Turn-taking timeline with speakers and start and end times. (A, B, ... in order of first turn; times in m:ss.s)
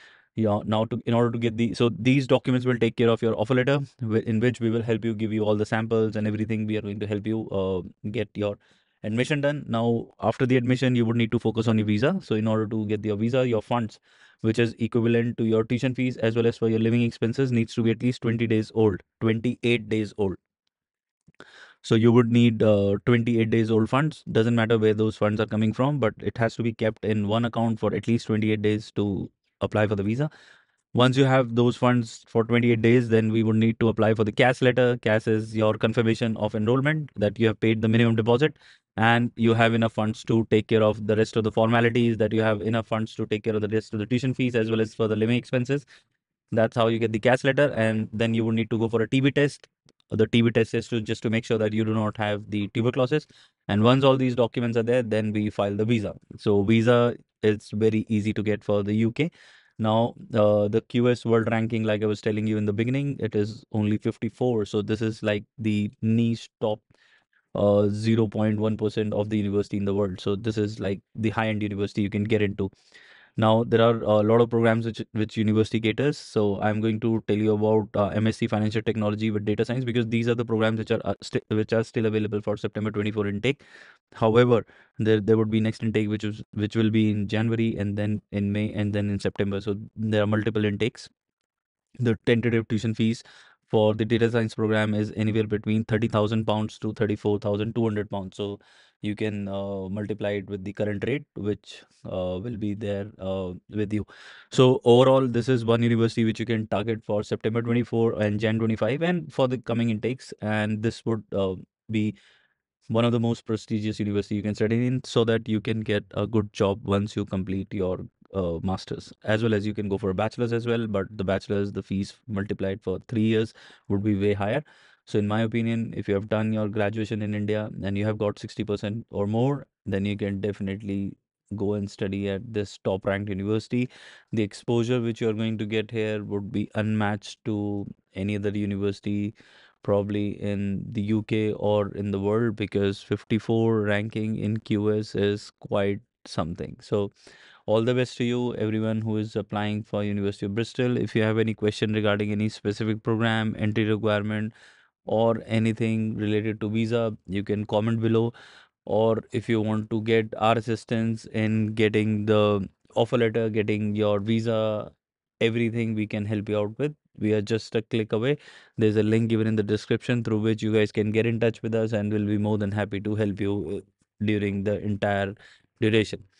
0:00.4-0:20.4 A
0:21.8-0:30.3 A
0:30.9-0:45.8 A
0:46.5-1:06.8 A
1:07.5-1:12.7 A
1:13.4-1:23.6 A
1:24.1-1:31.1 A
1:32.0-1:52.1 A
1:52.9-2:27.1 A
2:27.7-2:34.5 A
2:35.0-2:38.3 A
2:38.8-2:56.2 A